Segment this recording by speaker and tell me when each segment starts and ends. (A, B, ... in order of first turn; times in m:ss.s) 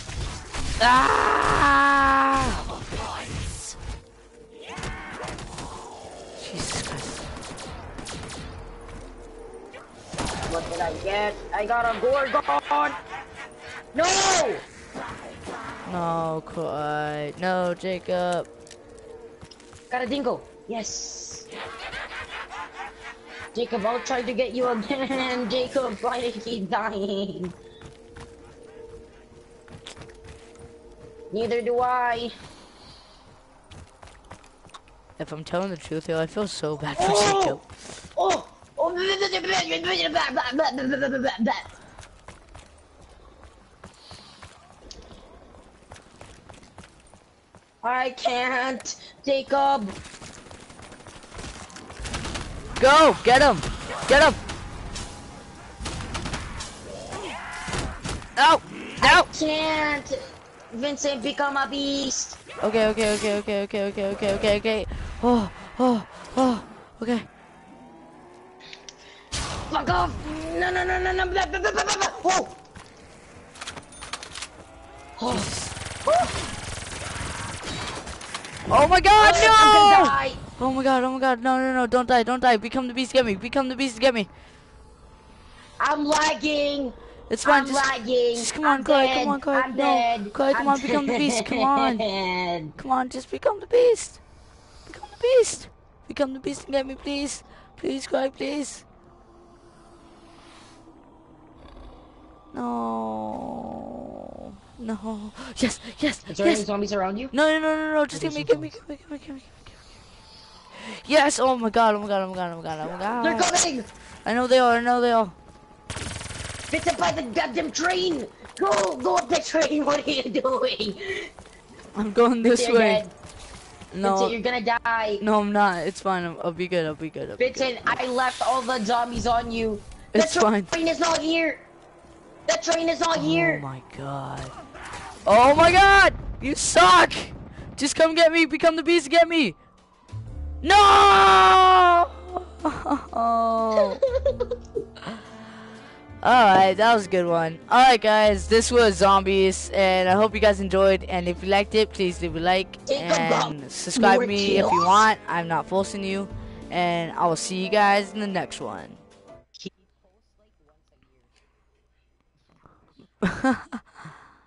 0:00.8-0:02.7 A
0:06.4-0:07.2 A
0:10.4-0:13.0 B
0:13.9-0:14.6 B
0:15.8-0:18.5 A
0:19.9-0:21.5 B
0:23.5-0:27.6 B
0:31.3-0:32.3 B
0:35.2-0:37.6 A
0:37.0-0:37.6 B
0:38.2-0:41.7 B
0:47.8-0:50.0 B
0:52.8-0:54.4 A
0:58.4-0:59.3 A
0:59.0-1:02.4 B
1:02.6-1:07.3 A
1:09.7-1:12.6 B
1:15.2-1:16.4 B
1:15.2-1:15.7 A
1:18.7-1:24.3 A
1:19.2-1:20.4 B
1:25.8-1:32.8 B
1:27.3-1:32.0 A
1:32.8-1:34.2 A
1:34.8-1:38.8 A
1:42.5-1:43.9 A
1:44.8-1:46.6 A
1:46.3-1:47.3 B
1:47.3-1:49.8 A
1:48.1-1:48.8 B
1:50.7-1:53.6 A
1:53.0-1:53.9 B
1:54.2-1:55.4 A
1:56.7-2:01.3 B
2:01.9-2:03.0 A
2:02.4-2:03.1 B
2:03.9-2:04.4 A
2:04.0-2:05.2 B
2:05.2-2:08.0 A
2:07.4-2:11.6 B
2:10.1-2:10.7 A
2:12.5-2:13.6 B
2:13.2-2:14.6 A
2:15.2-2:19.6 A
2:20.6-2:24.0 A
2:23.8-2:24.5 B
2:26.2-2:39.0 A
2:32.9-2:35.1 B
2:43.2-2:43.8 A